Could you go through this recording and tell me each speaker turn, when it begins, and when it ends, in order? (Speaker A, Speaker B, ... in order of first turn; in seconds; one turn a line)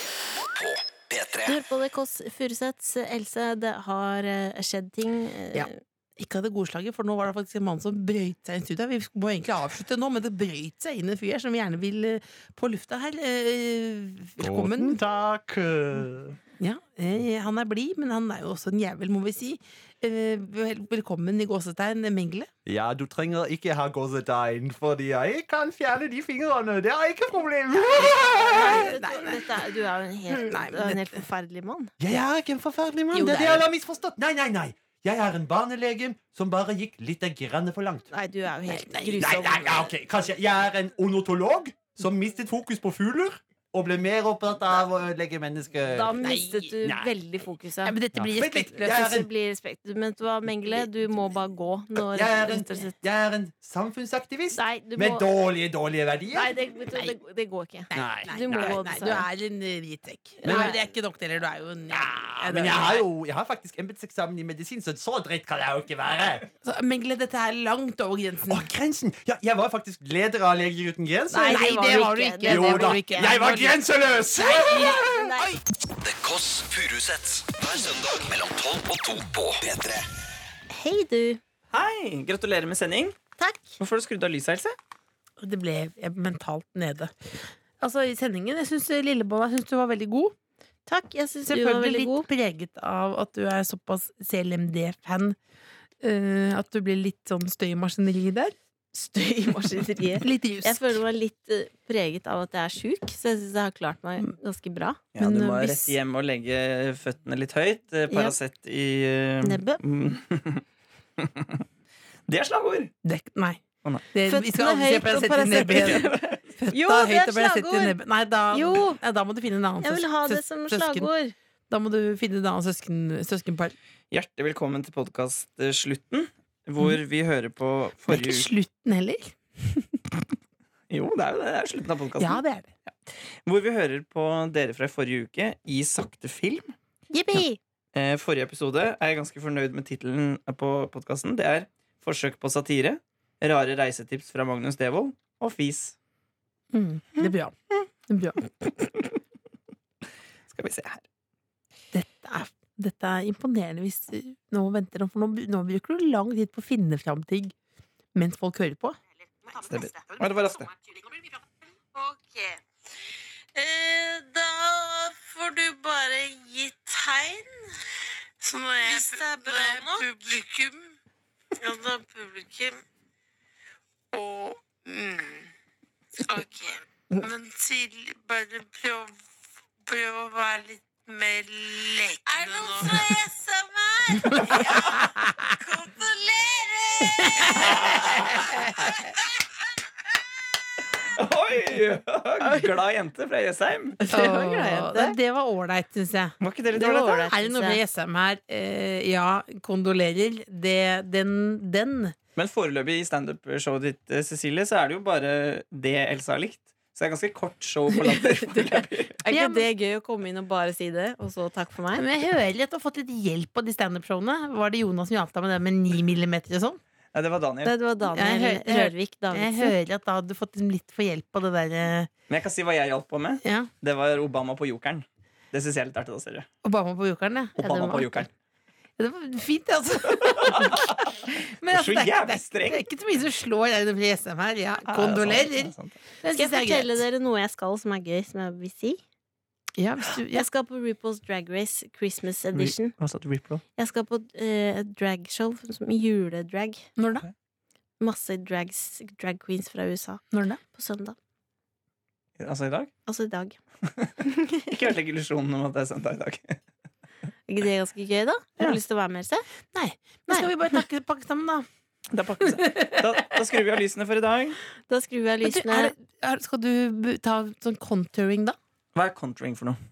Speaker A: 0.5-1.6
Speaker B: 1.4-5.8
Speaker C: 5.5-15.0
Speaker D: 14.4-16.4
Speaker C: 16.6-22.5
Speaker D: 22.6-28.9
Speaker B: 28.0-31.9
Speaker C: 28.1-29.4
Speaker C: 30.3-31.2
Speaker D: 32.0-38.1
Speaker B: 33.1-33.7
Speaker B: 38.1-39.9
Speaker C: 38.6-39.6
Speaker D: 39.2-46.2
Speaker B: 45.9-48.0
Speaker C: 46.2-46.7
Speaker D: 46.8-47.1
Speaker C: 47.8-49.1
Speaker D: 48.1-49.3
Speaker B: 48.8-53.0
Speaker D: 52.0-56.5
Speaker B: 54.5-55.2
Speaker B: 56.3-59.3
Speaker C: 57.9-63.1
Speaker D: 57.9-58.8
Speaker B: 60.4-60.8
Speaker D: 60.4-60.8
Speaker D: 61.9-66.5
Speaker C: 66.6-68.7
Speaker D: 68.5-75.0
Speaker B: 71.3-73.0
Speaker C: 71.3-73.8
Speaker B: 74.4-75.5
Speaker A: 76.0-80.0
Speaker B: 80.7-81.4
Speaker E: 81.7-83.2
Speaker B: 83.4-83.7
Speaker E: 83.8-84.8
Speaker C: 85.4-90.3
Speaker B: 90.9-92.3
Speaker C: 91.5-95.4
Speaker C: 96.0-98.5
Speaker B: 98.9-105.0
Speaker C: 100.2-101.0
Speaker E: 105.1-110.6
Speaker C: 105.2-105.9
Speaker B: 108.1-108.4
Speaker B: 109.4-109.8
Speaker E: 111.2-111.6
Speaker E: 112.3-112.9
Speaker C: 113.0-121.1
Speaker B: 114.3-118.0
Speaker E: 115.8-116.4
Speaker B: 118.5-119.0
Speaker B: 119.8-121.3
Speaker C: 121.7-123.7
Speaker E: 124.1-128.5
Speaker C: 128.1-130.0
Speaker E: 130.9-132.9
Speaker C: 132.2-132.7
Speaker E: 133.4-136.7
Speaker B: 137.1-137.6
Speaker E: 137.9-145.9
Speaker C: 146.7-148.4
Speaker E: 150.5-151.0
Speaker C: 151.9-157.5
Speaker C: 158.1-159.0
Speaker E: 159.7-160.7
Speaker B: 161.9-162.6
Speaker B: 163.5-167.6
Speaker C: 168.4-170.9
Speaker B: 168.8-170.1
Speaker B: 171.6-172.8
Speaker C: 174.1-175.5
Speaker C: 176.2-179.1
Speaker C: 179.8-183.5
Speaker B: 182.4-184.8
Speaker C: 184.1-185.7
Speaker E: 184.6-184.9
Speaker B: 185.8-187.5
Speaker C: 187.0-189.1
Speaker E: 187.7-188.4
Speaker E: 191.1-194.0
Speaker B: 192.4-192.7
Speaker B: 194.0-195.2
Speaker C: 194.1-202.2
Speaker E: 196.4-197.0
Speaker B: 196.7-197.8
Speaker E: 202.3-209.2
Speaker B: 209.2-212.1
Speaker C: 209.3-209.7
Speaker C: 211.9-216.8
Speaker E: 217.1-217.7
Speaker B: 217.6-219.8
Speaker C: 218.1-222.1
Speaker E: 222.3-226.5
Speaker C: 223.4-223.7
Speaker C: 226.6-228.3
Speaker E: 227.6-228.3
Speaker C: 229.0-237.0
Speaker E: 230.2-232.8
Speaker E: 234.8-235.9
Speaker B: 236.3-239.0
Speaker C: 239.8-240.5
Speaker B: 240.3-242.9
Speaker E: 242.5-243.6
Speaker B: 243.8-246.8
Speaker C: 247.0-247.3
Speaker B: 248.0-251.2
Speaker C: 250.3-250.6
Speaker E: 252.4-252.9
Speaker B: 253.1-253.6
Speaker B: 254.3-254.7
Speaker E: 254.7-256.6
Speaker B: 257.5-259.4
Speaker C: 259.7-261.7
Speaker E: 262.1-264.6
Speaker C: 262.5-263.2
Speaker B: 264.9-265.9
Speaker C: 265.4-268.6
Speaker E: 268.9-269.8